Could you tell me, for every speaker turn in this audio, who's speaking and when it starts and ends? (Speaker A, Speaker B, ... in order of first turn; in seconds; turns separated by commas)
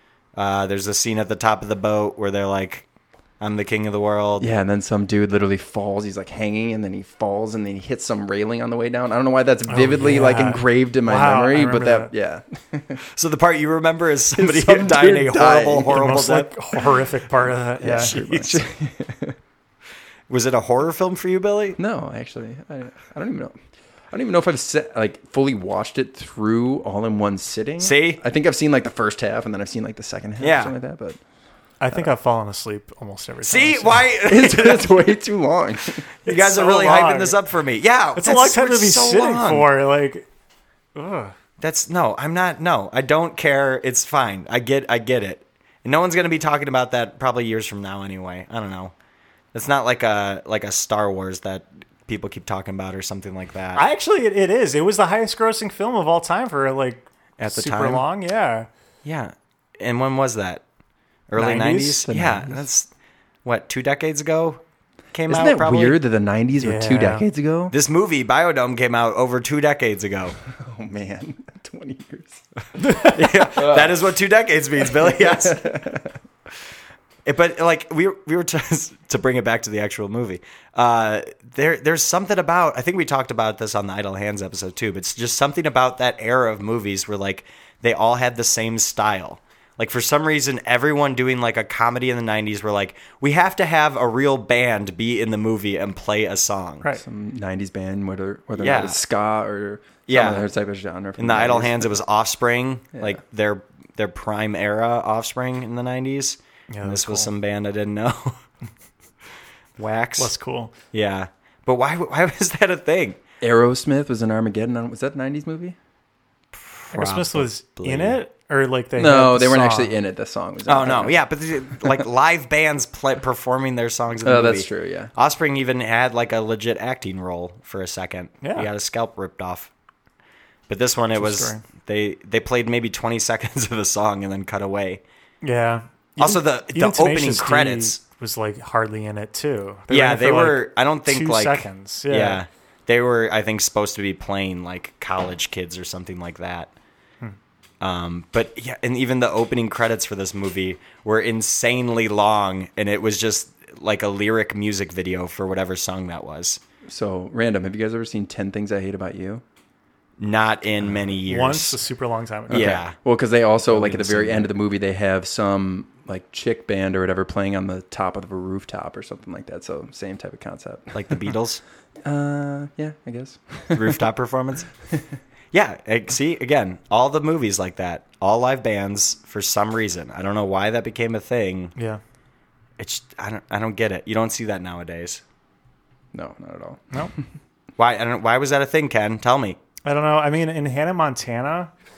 Speaker A: 0.3-2.9, Speaker A: 3.4-4.5, Speaker B: 4.4-13.0, Speaker C: 9.7-12.1, Speaker A: 13.1-16.5, Speaker B: 14.3-16.0, Speaker C: 15.9-18.6, Speaker B: 17.8-19.4, Speaker A: 20.3-21.8, Speaker B: 21.8-23.6, Speaker B: 24.1-31.2, Speaker A: 27.8-28.2, Speaker A: 30.4-30.7, Speaker C: 31.8-34.1, Speaker A: 33.4-35.0, Speaker B: 34.2-36.0, Speaker C: 36.2-37.3, Speaker A: 36.2-39.7, Speaker C: 38.2-40.3, Speaker C: 40.9-41.3, Speaker A: 41.6-48.9, Speaker A: 49.5-53.8, Speaker C: 53.8-58.7, Speaker A: 57.4-58.0, Speaker A: 59.0-60.6, Speaker A: 61.3-62.9, Speaker C: 61.4-62.0, Speaker B: 62.1-62.6, Speaker A: 63.4-64.6, Speaker A: 65.1-66.0, Speaker B: 65.3-67.7, Speaker C: 66.6-67.2, Speaker A: 67.7-70.3, Speaker B: 70.5-72.4, Speaker C: 72.8-73.1, Speaker A: 73.0-75.8, Speaker B: 73.5-74.0, Speaker B: 74.8-76.1, Speaker A: 77.2-96.8, Speaker B: 96.9-101.9, Speaker A: 98.6-99.0, Speaker A: 100.1-100.5, Speaker A: 101.2-108.4, Speaker C: 106.7-107.3, Speaker A: 109.8-110.3, Speaker C: 110.2-110.7, Speaker A: 110.9-113.2, Speaker B: 113.4-115.8, Speaker A: 116.5-118.2, Speaker C: 116.9-120.0, Speaker B: 119.0-121.2, Speaker A: 120.7-129.7, Speaker B: 121.7-122.0, Speaker B: 124.2-125.1, Speaker C: 128.4-128.7, Speaker A: 130.7-135.0, Speaker C: 131.2-131.6, Speaker C: 135.4-142.4, Speaker A: 136.2-138.0, Speaker A: 139.9-146.7, Speaker A: 147.8-156.6, Speaker B: 156.9-159.4, Speaker A: 160.2-161.8, Speaker C: 161.2-162.8, Speaker B: 162.5-171.3, Speaker A: 162.5-162.9, Speaker C: 163.7-164.0, Speaker A: 164.0-164.4, Speaker A: 170.9-171.6, Speaker B: 172.0-174.0, Speaker A: 173.7-174.7, Speaker A: 175.5-181.7, Speaker C: 181.8-182.0, Speaker A: 182.8-185.2, Speaker B: 186.1-187.1, Speaker A: 187.8-189.6, Speaker C: 189.8-191.7